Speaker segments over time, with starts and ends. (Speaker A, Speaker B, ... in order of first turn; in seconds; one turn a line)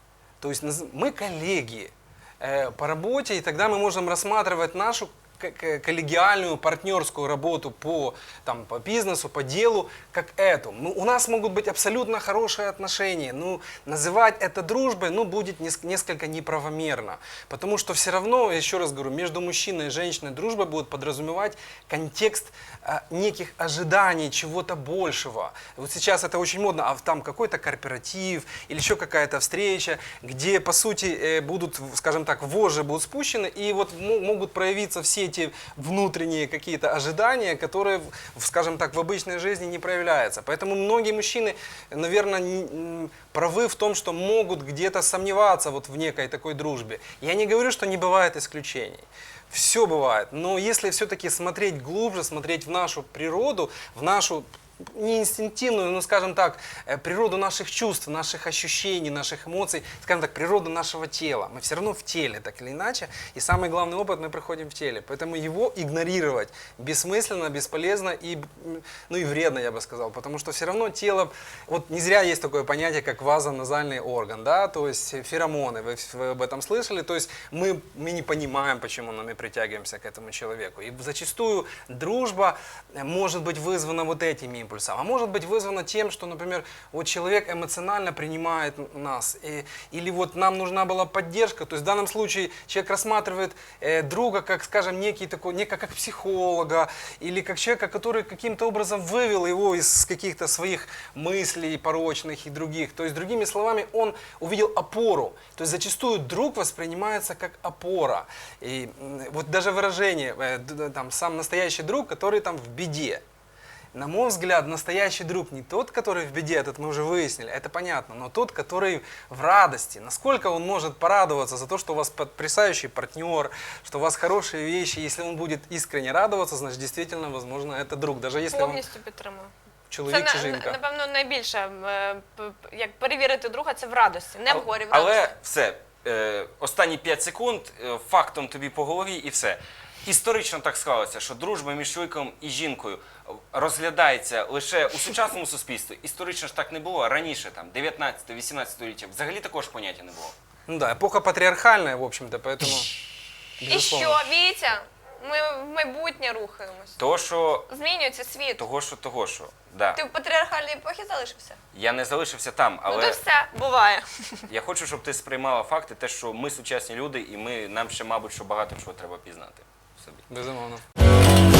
Speaker A: 0.4-113.2
Speaker A: 113.9-128.8
Speaker B: 128.5-129.5
Speaker A: 129.9-130.8
Speaker B: 130.1-135.4
Speaker C: 134.5-150.3
Speaker A: 150.7-152.9
Speaker A: 153.6-154.2
Speaker B: 153.7-157.0
Speaker C: 157.0-157.7
Speaker B: 157.7-158.7
Speaker C: 158.6-160.0
Speaker B: 159.9-161.6
Speaker C: 161.7-163.2
Speaker B: 162.8-164.4
Speaker C: 164.5-170.2
Speaker A: 170.3-170.8